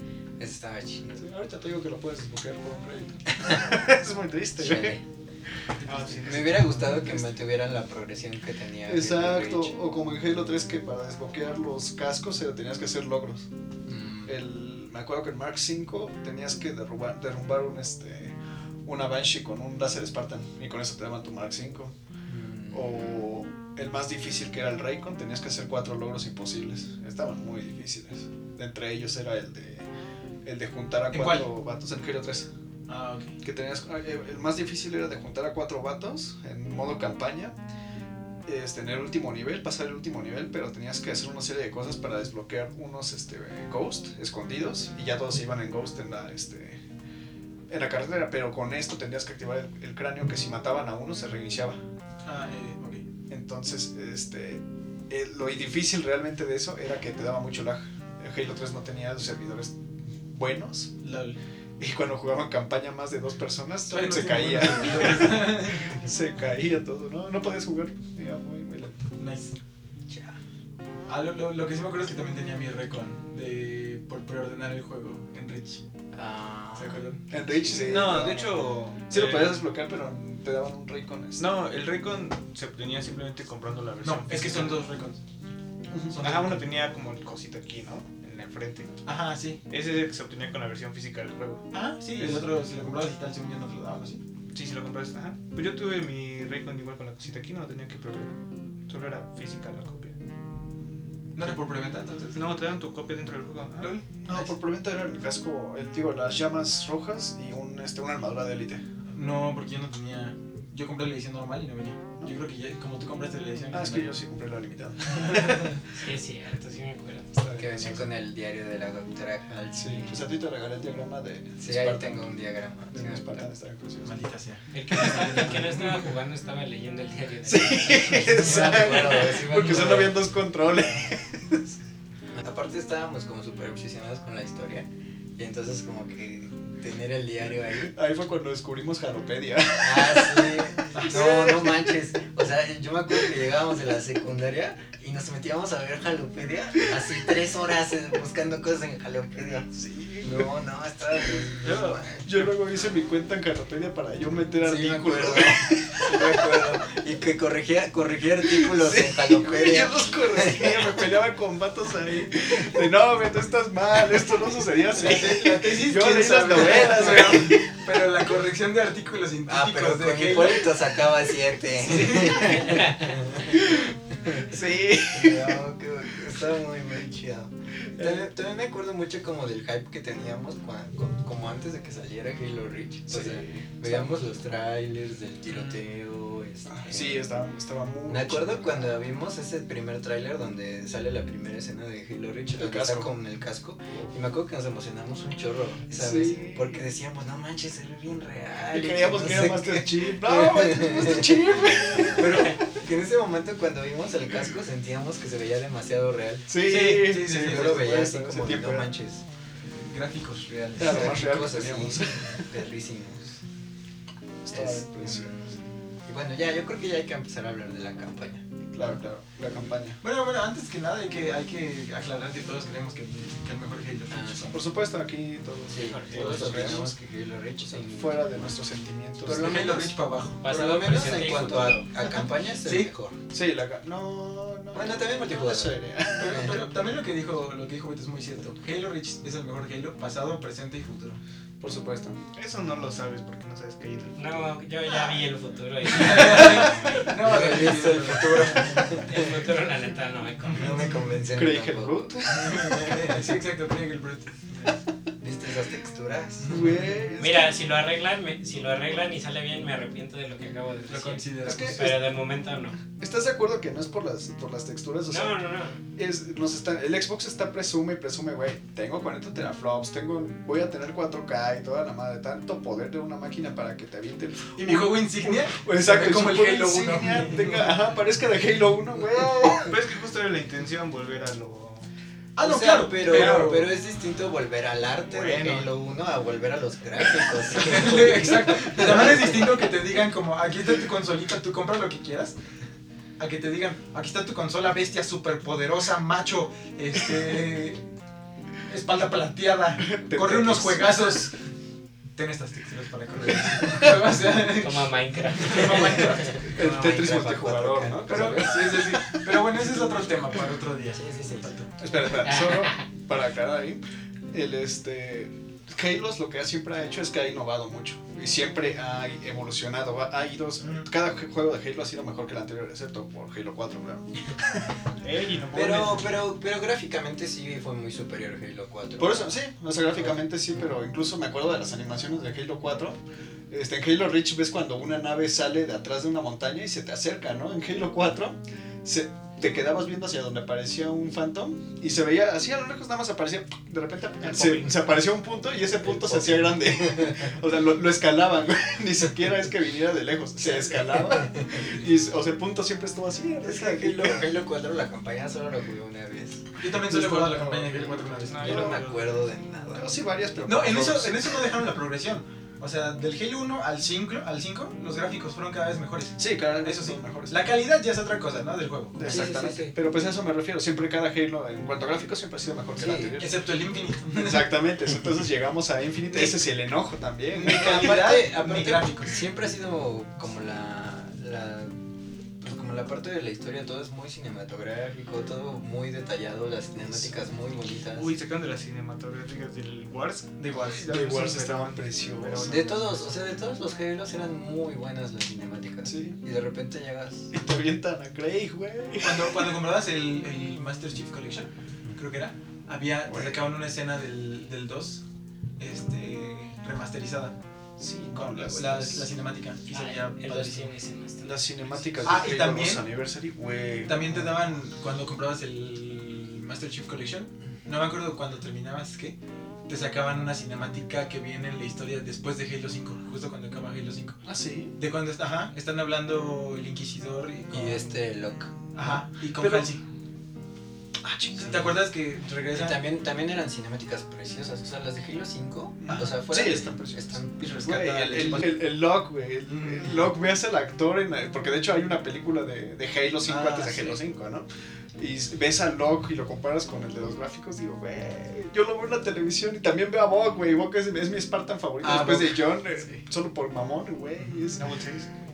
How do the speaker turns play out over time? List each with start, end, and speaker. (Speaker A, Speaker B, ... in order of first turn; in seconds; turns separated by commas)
Speaker A: 0.4-1.2, Speaker B: 1.2-5.0, Speaker A: 4.6-5.0, Speaker C: 5.8-6.1, Speaker D: 5.8-7.2, Speaker A: 6.2-9.8, Speaker B: 8.8-13.5, Speaker A: 13.9-14.4, Speaker B: 14.2-21.9, Speaker A: 22.3-23.1, Speaker B: 22.7-29.9, Speaker B: 30.4-32.5, Speaker C: 31.1-31.5, Speaker C: 32.9-33.4, Speaker B: 33.4-37.6, Speaker B: 38.5-46.8, Speaker B: 47.7-51.8, Speaker C: 52.2-53.1, Speaker B: 53.3-61.0, Speaker C: 61.0-61.4, Speaker B: 61.8-69.1, Speaker C: 63.9-66.0, Speaker C: 69.2-69.5, Speaker A: 70.1-70.4, Speaker C: 71.1-75.8, Speaker A: 76.1-77.1, Speaker C: 76.8-77.2, Speaker B: 77.3-78.5, Speaker A: 77.6-78.1, Speaker D: 77.8-79.6, Speaker B: 79.1-81.5, Speaker D: 81.4-84.8, Speaker C: 84.0-85.2, Speaker B: 85.9-86.2, Speaker C: 86.1-86.6, Speaker D: 86.2-89.0, Speaker C: 89.1-89.6, Speaker D: 89.7-91.7, Speaker C: 91.7-94.2, Speaker B: 92.2-92.8, Speaker D: 94.5-100.2, Speaker C: 101.4-102.4, Speaker D: 102.3-104.0, Speaker B: 103.8-108.9, Speaker C: 109.1-114.1, Speaker B: 113.7-115.8, Speaker E: 115.9-117.3, Speaker B: 117.3-118.1, Speaker A: 117.5-120.2, Speaker B: 119.7-122.3, Speaker A: 121.6-123.4, Speaker B: 122.9-124.2, Speaker C: 124.0-125.7, Speaker E: 124.7-129.3, Speaker B: 127.5-131.7, Speaker A: 128.3-130.2, Speaker A: 132.3-137.9, Speaker B: 137.9-141.9, Speaker A: 139.8-149.7, Speaker C: 140.9-141.5, Speaker B: 149.6-150.5, Speaker A: 150.2-152.3, Speaker B: 151.7-156.5, Speaker A: 154.6-160.9, Speaker B: 158.4-167.7, Speaker C: 164.9-171.0, Speaker A: 169.5-174.5, Speaker C: 171.8-172.9, Speaker B: 173.5-173.9, Speaker B: 174.4-175.6, Speaker A: 175.1-187.2, Speaker B: 177.9-178.3, Speaker B: 183.1-184.2, Speaker B: 186.7-189.0, Speaker A: 188.1-201.4, Speaker B: 192.5-193.2, Speaker B: 195.9-196.9, Speaker B: 198.7-202.6, Speaker A: 202.0-206.6, Speaker B: 206.5-208.9, Speaker C: 206.6-208.0, Speaker A: 207.2-209.2, Speaker C: 209.8-211.2, Speaker A: 210.8-213.4, Speaker B: 210.8-212.4, Speaker B: 214.4-215.3, Speaker A: 214.5-218.4, Speaker B: 218.7-220.0, Speaker C: 220.0-224.6, Speaker A: 224.1-224.6, Speaker B: 224.5-226.9, Speaker A: 225.7-228.3, Speaker E: 225.9-226.3, Speaker C: 226.1-226.8, Speaker B: 227.7-229.7, Speaker A: 229.2-233.2, Speaker C: 229.3-232.9, Speaker E: 230.4-231.8, Speaker B: 233.3-236.6, Speaker A: 234.7-236.6, Speaker C: 236.2-241.2, Speaker B: 241.6-242.2, Speaker D: 242.3-244.5, Speaker E: 244.2-247.2, Speaker C: 245.9-249.0, Speaker A: 247.1-249.3, Speaker E: 249.1-250.9, Speaker A: 250.5-253.4, Speaker B: 251.3-252.8, Speaker C: 252.3-254.8, Speaker A: 255.2-256.7, Speaker B: 256.5-257.6, Speaker E: 257.2-262.8, Speaker C: 260.9-261.9, Speaker B: 261.4-262.1, Speaker B: 263.0-265.4, Speaker E: 265.1-265.8, Speaker B: 265.9-279.8, Speaker C: 274.6-277.7, Speaker D: 279.6-281.9, Speaker C: 282.4-283.7, Speaker A: 282.4-289.4, Speaker D: 283.1-283.4, Speaker B: 283.2-283.5, Speaker D: 285.1-285.7, Speaker C: 287.6-292.4, Speaker C: 293.2-297.8, Speaker C: 298.7-301.3, Speaker B: 299.9-301.3, Speaker C: 302.1-306.5, Speaker E: 304.4-306.3, Speaker B: 306.4-309.2, Speaker A: 306.4-308.7, Speaker C: 308.1-311.7, Speaker A: 310.9-311.5, Speaker B: 311.8-324.3, Speaker E: 312.2-312.8, Speaker D: 325.0-326.2, Speaker A: 325.5-329.4, Speaker B: 329.0-333.0, Speaker B: 333.5-354.3, Speaker D: 344.2-344.9, Speaker A: 346.0-347.2, Speaker A: 350.4-351.7, Speaker A: 353.4-359.9, Speaker C: 356.6-358.7, Speaker B: 356.9-357.8, Speaker D: 358.2-359.2, Speaker B: 358.4-358.8, Speaker B: 359.7-361.4, Speaker C: 360.4-369.2, Speaker B: 366.2-367.5, Speaker B: 368.9-373.4, Speaker A: 369.0-369.8, Speaker A: 372.8-373.2, Speaker C: 373.2-374.5, Speaker B: 374.1-378.0, Speaker C: 377.3-379.2, Speaker A: 377.4-381.7, Speaker A: 382.4-388.1, Speaker B: 386.8-387.1, Speaker D: 387.9-393.3, Speaker C: 390.5-391.1, Speaker B: 390.5-392.8, Speaker A: 392.5-397.3, Speaker B: 395.9-396.2, Speaker B: 397.3-399.5, Speaker C: 399.0-405.0, Speaker B: 403.1-403.5, Speaker C: 405.6-407.4, Speaker B: 407.8-409.1, Speaker C: 408.1-410.7, Speaker E: 409.7-411.9, Speaker B: 411.2-414.2, Speaker C: 412.0-412.8, Speaker C: 413.9-424.2, Speaker B: 424.3-424.8, Speaker C: 424.8-427.9, Speaker A: 427.5-428.5, Speaker C: 428.7-429.8, Speaker B: 428.8-429.7, Speaker B: 431.0-431.8, Speaker C: 431.4-432.8, Speaker A: 432.5-437.5, Speaker B: 435.8-454.8, Speaker C: 435.9-436.1, Speaker C: 437.4-438.6, Speaker C: 439.5-440.1, Speaker C: 443.3-444.0, Speaker C: 451.8-452.6, Speaker D: 454.6-455.1